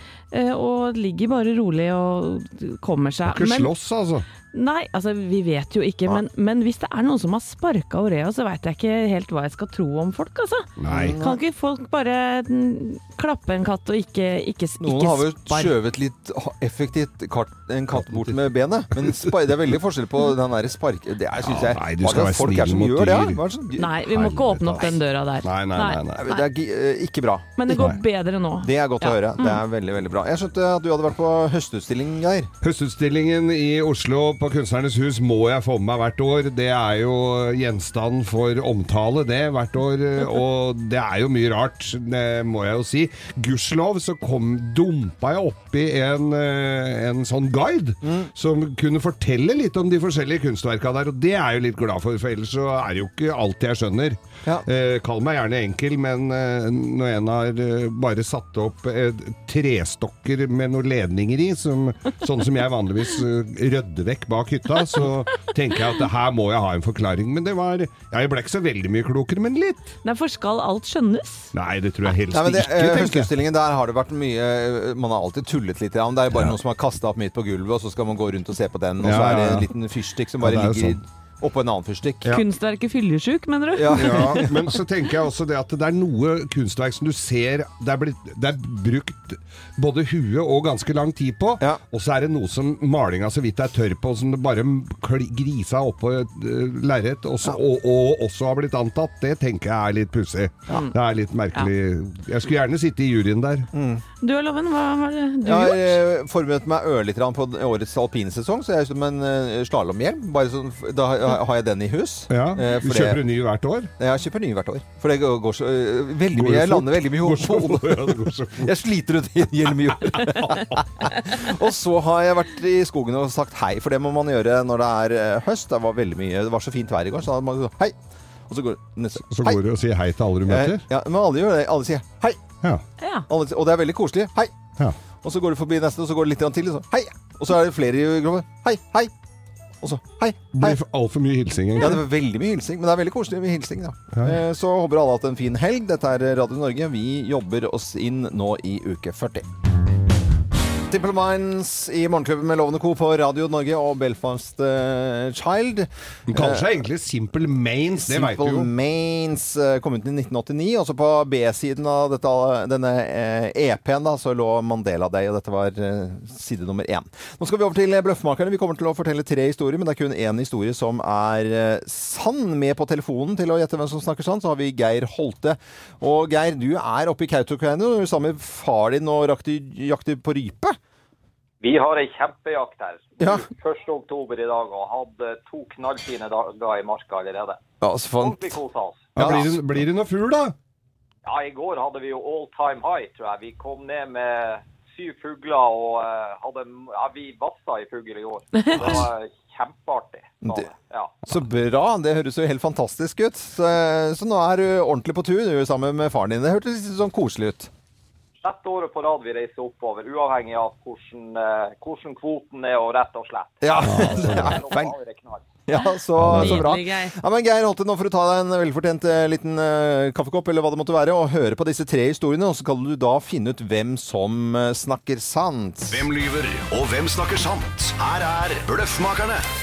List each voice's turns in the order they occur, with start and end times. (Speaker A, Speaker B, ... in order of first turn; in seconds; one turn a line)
Speaker A: 0.3-3.7
Speaker B: 3.3-4.3
Speaker A: 4.5-15.8
Speaker B: 10.8-11.2
Speaker C: 10.9-11.4
Speaker C: 14.8-23.9
Speaker B: 17.9-19.5
Speaker B: 21.4-23.4
Speaker A: 23.8-26.4
Speaker B: 24.0-26.3
Speaker C: 26.2-27.6
Speaker A: 27.6-29.6
Speaker B: 27.7-28.0
Speaker C: 28.6-32.5
Speaker B: 32.6-70.0
Speaker C: 48.0-48.3
Speaker A: 70.0-71.5
Speaker B: 71.5-73.3
Speaker C: 72.3-82.3
Speaker B: 79.0-79.7
Speaker B: 80.4-81.0
Speaker A: 82.3-84.5
Speaker C: 83.8-84.5
Speaker B: 83.9-103.7
Speaker C: 103.7-104.0
Speaker A: 104.2-106.0
Speaker C: 105.5-113.2
Speaker B: 112.3-113.9
Speaker C: 114.0-128.0
Speaker B: 116.3-118.7
Speaker B: 119.9-121.1
Speaker C: 128.5-129.6
Speaker B: 129.3-130.8
Speaker C: 130.5-132.4
Speaker A: 133.0-133.3
Speaker C: 133.3-134.6
Speaker C: 135.2-139.1
Speaker C: 139.8-140.8
Speaker B: 140.5-142.0
Speaker C: 141.8-149.5
Speaker C: 150.9-156.8
Speaker B: 156.3-158.7
Speaker C: 158.0-180.8
Speaker D: 181.6-187.6
Speaker C: 183.2-183.5
Speaker C: 187.8-188.6
Speaker D: 188.2-189.4
Speaker B: 189.2-190.6
Speaker C: 189.2-189.6
Speaker D: 191.3-201.2
Speaker A: 198.6-199.0
Speaker C: 201.2-207.7
Speaker D: 208.4-215.4
Speaker C: 213.6-214.9
Speaker B: 213.8-214.6
Speaker C: 215.7-226.1
Speaker B: 216.2-216.7
Speaker A: 216.2-217.2
Speaker E: 225.9-229.4